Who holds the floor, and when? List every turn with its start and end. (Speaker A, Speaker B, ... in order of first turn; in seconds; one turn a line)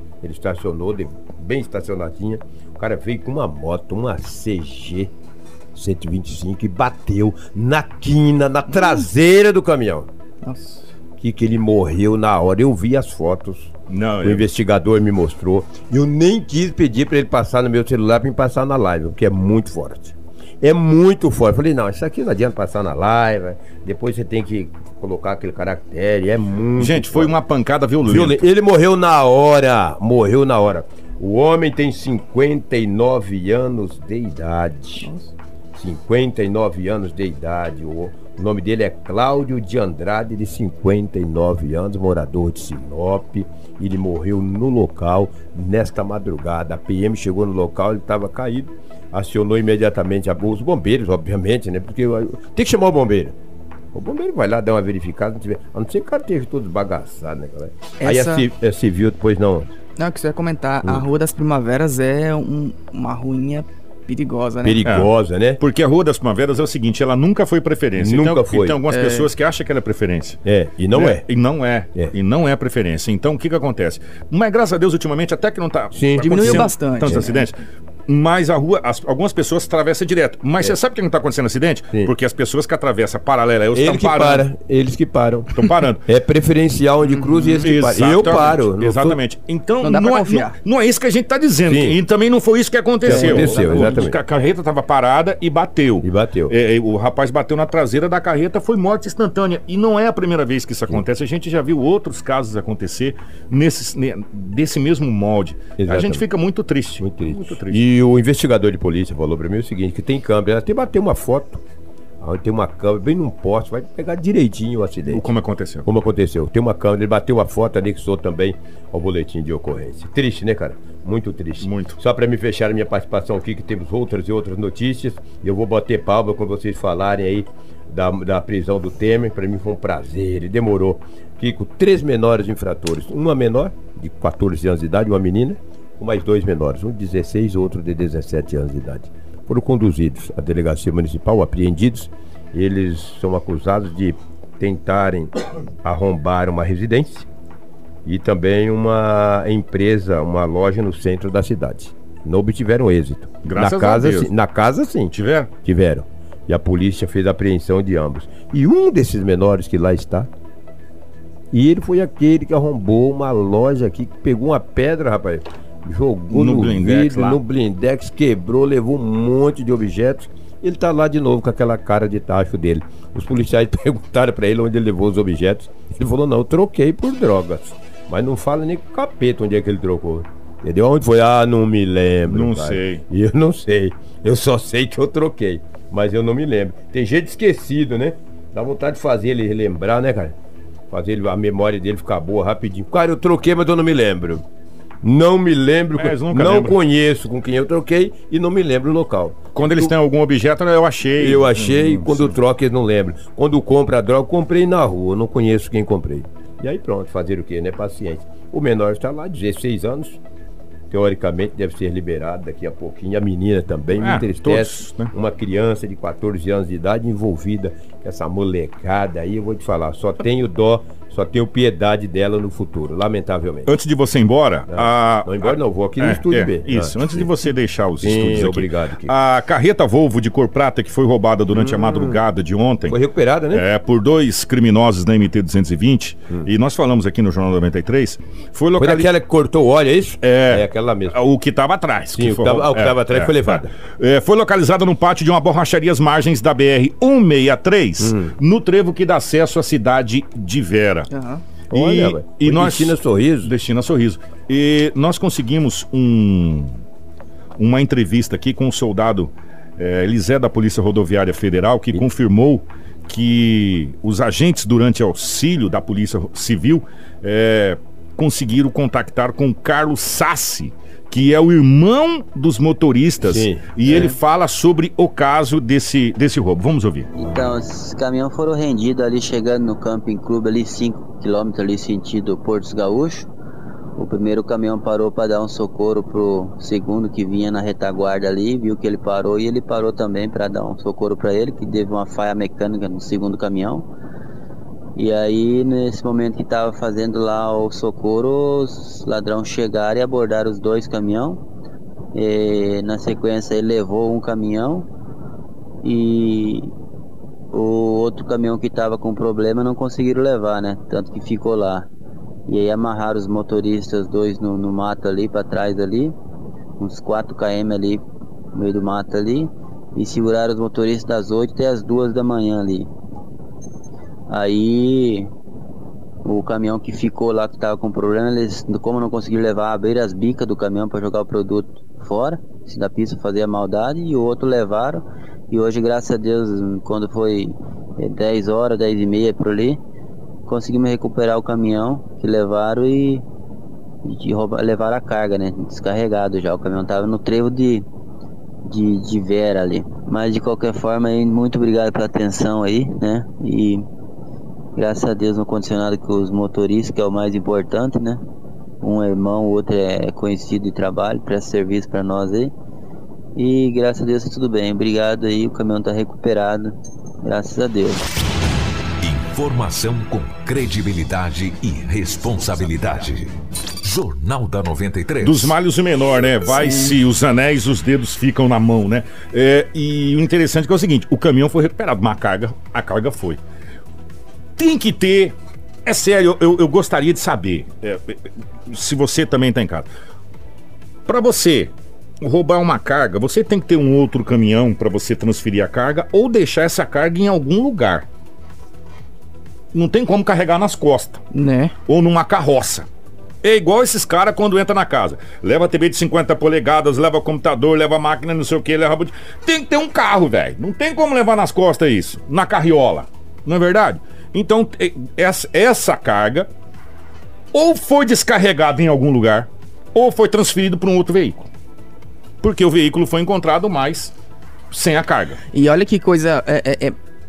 Speaker A: 0.2-5.1
Speaker A: 5.7-10.1
Speaker B: 10.4-10.8
Speaker A: 11.2-27.4
Speaker C: 13.9-14.5
Speaker C: 26.8-28.4
Speaker A: 28.0-35.1
Speaker B: 35.0-35.3
Speaker A: 35.7-53.4
Speaker A: 53.9-59.7
Speaker B: 58.0-58.4
Speaker B: 60.0-64.8
Speaker A: 64.6-65.6
Speaker C: 64.8-70.4
Speaker A: 68.0-68.8
Speaker B: 68.9-69.3
Speaker A: 70.4-71.3
Speaker C: 70.9-84.5
Speaker A: 75.9-77.2
Speaker B: 76.2-77.2
Speaker A: 83.7-85.5
Speaker C: 85.5-86.0
Speaker A: 86.0-89.2
Speaker B: 87.1-87.7
Speaker C: 87.6-107.8
Speaker B: 89.8-90.5
Speaker A: 91.7-92.0
Speaker A: 93.0-94.2
Speaker B: 93.0-94.1
Speaker A: 96.0-96.5
Speaker A: 105.8-106.3
Speaker A: 107.0-111.6
Speaker A: 112.2-115.3
Speaker C: 115.1-115.9
Speaker A: 115.8-147.3
Speaker C: 121.6-122.0
Speaker A: 148.0-160.3
Speaker C: 153.4-154.3
Speaker C: 155.1-155.5
Speaker A: 161.5-190.3
Speaker C: 166.3-167.4
Speaker C: 182.2-183.0
Speaker A: 190.9-194.4
Speaker A: 195.0-199.9
Speaker C: 195.9-196.8
Speaker C: 199.5-202.3
Speaker A: 201.2-210.2
Speaker A: 210.9-223.7
Speaker C: 213.9-215.1
Speaker C: 223.7-233.0
Speaker A: 224.7-227.3
Speaker A: 228.0-229.1
Speaker A: 231.5-232.2
Speaker A: 232.9-233.6
Speaker C: 233.5-239.1
Speaker A: 238.8-241.2
Speaker C: 240.2-251.1
Speaker A: 242.1-243.7
Speaker A: 248.0-248.4
Speaker B: 251.1-251.4
Speaker A: 251.7-253.5
Speaker C: 251.7-256.7
Speaker C: 257.6-277.1
Speaker A: 273.2-274.1
Speaker D: 277.2-283.3
Speaker D: 284.0-293.9
Speaker D: 294.9-301.4
Speaker D: 302.1-304.9
Speaker D: 305.8-306.7
Speaker D: 307.5-311.9
Speaker D: 312.5-316.1
Speaker D: 316.8-318.0
Speaker D: 318.5-322.9
Speaker D: 324.3-325.3
Speaker D: 326.2-339.8
Speaker D: 340.5-343.2
Speaker D: 344.0-347.9
Speaker D: 348.6-353.8
Speaker D: 354.8-358.2
Speaker D: 358.8-362.5
Speaker D: 363.3-368.1
Speaker E: 369.0-375.6
Speaker C: 375.2-383.4
Speaker C: 384.6-389.9
Speaker C: 391.1-398.1
Speaker C: 399.7-401.2
Speaker B: 401.3-401.7
Speaker C: 401.9-402.9
Speaker C: 403.4-416.5
Speaker C: 417.5-421.5
Speaker C: 422.4-424.1
Speaker C: 424.7-425.4
Speaker B: 425.5-426.9